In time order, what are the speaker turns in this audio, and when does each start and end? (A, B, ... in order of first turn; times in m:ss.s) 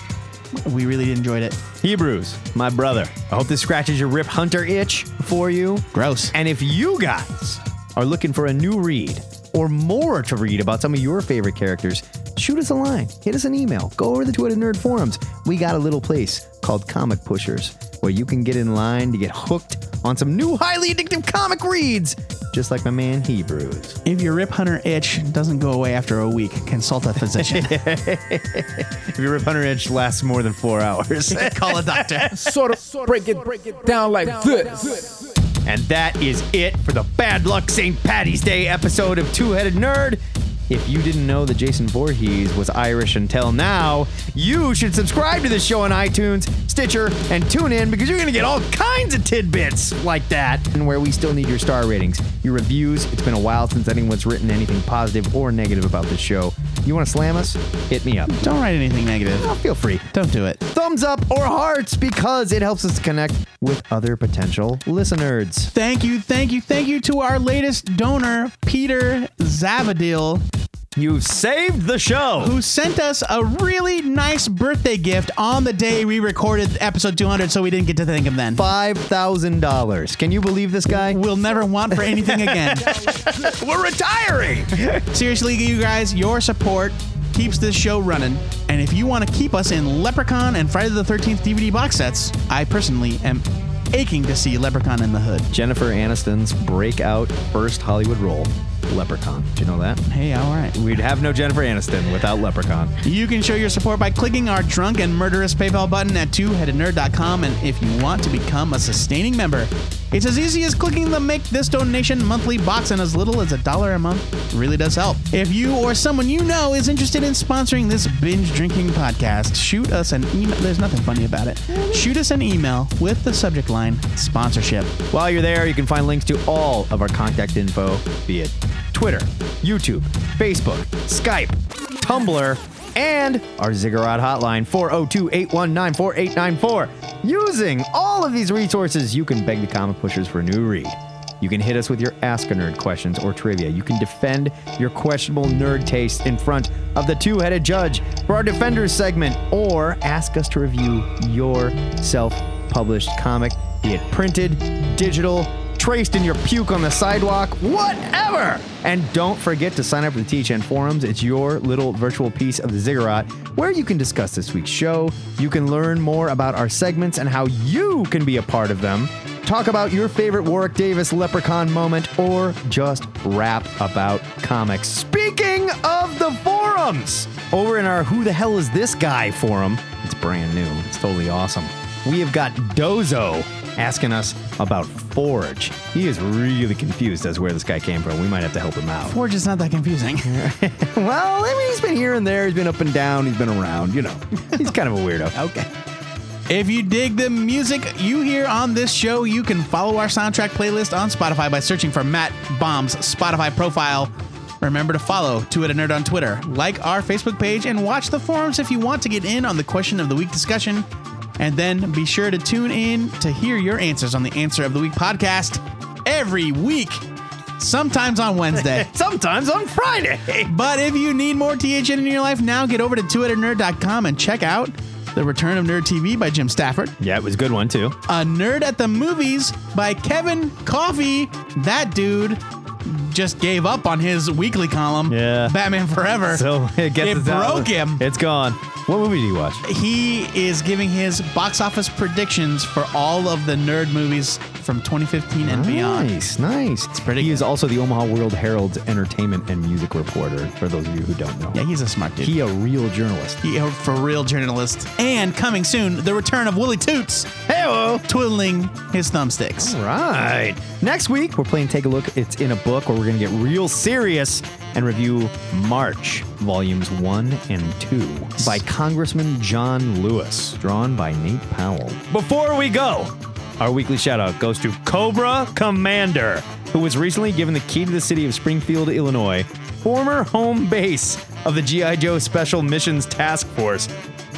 0:00.6-0:01.6 A
0:01.8-0:24.0 B
0:05.9-0:06.3 A
0:24.0-0:27.8 A
0:27.4-0:32.6 B
0:31.3-0:32.4 A
0:32.4-0:35.1 C
0:35.7-0:58.5 B
0:58.4-0:59.5 A
0:59.4-1:00.1 B
1:00.1-1:00.6 A
1:00.6-1:05.7 B
1:05.7-1:10.4 A
1:11.0-1:12.6 B
1:12.4-1:18.6 A
1:18.6-1:21.2 B
1:20.9-1:23.0 A
1:21.9-1:25.1 B
1:25.1-1:35.5 A
1:35.5-1:40.0 B
1:40.1-1:40.9 A
1:40.7-1:42.9 B
1:43.0-2:05.0 A
2:01.8-2:02.0 B
2:05.1-3:09.2 B
3:09.0-3:10.4 A
3:10.2-3:15.5 B
3:16.5-3:24.1 A
3:24.6-3:30.9 A
3:31.4-3:37.0 A
3:37.6-3:38.9 A
3:38.6-3:40.5 B
3:40.5-3:47.0 A
3:47.0-3:48.0 B
3:48.1-3:56.5 A
3:55.1-3:55.6 B
3:56.3-3:59.6 B
3:57.0-3:58.0 A
3:59.6-4:06.1 A
4:05.4-4:11.6 B
4:07.0-4:07.5 A
4:11.5-4:12.3 A
4:12.2-4:13.4 B
4:13.4-4:17.4 A
4:17.5-4:18.0 B
4:18.1-4:19.8 A
4:19.6-4:43.9 B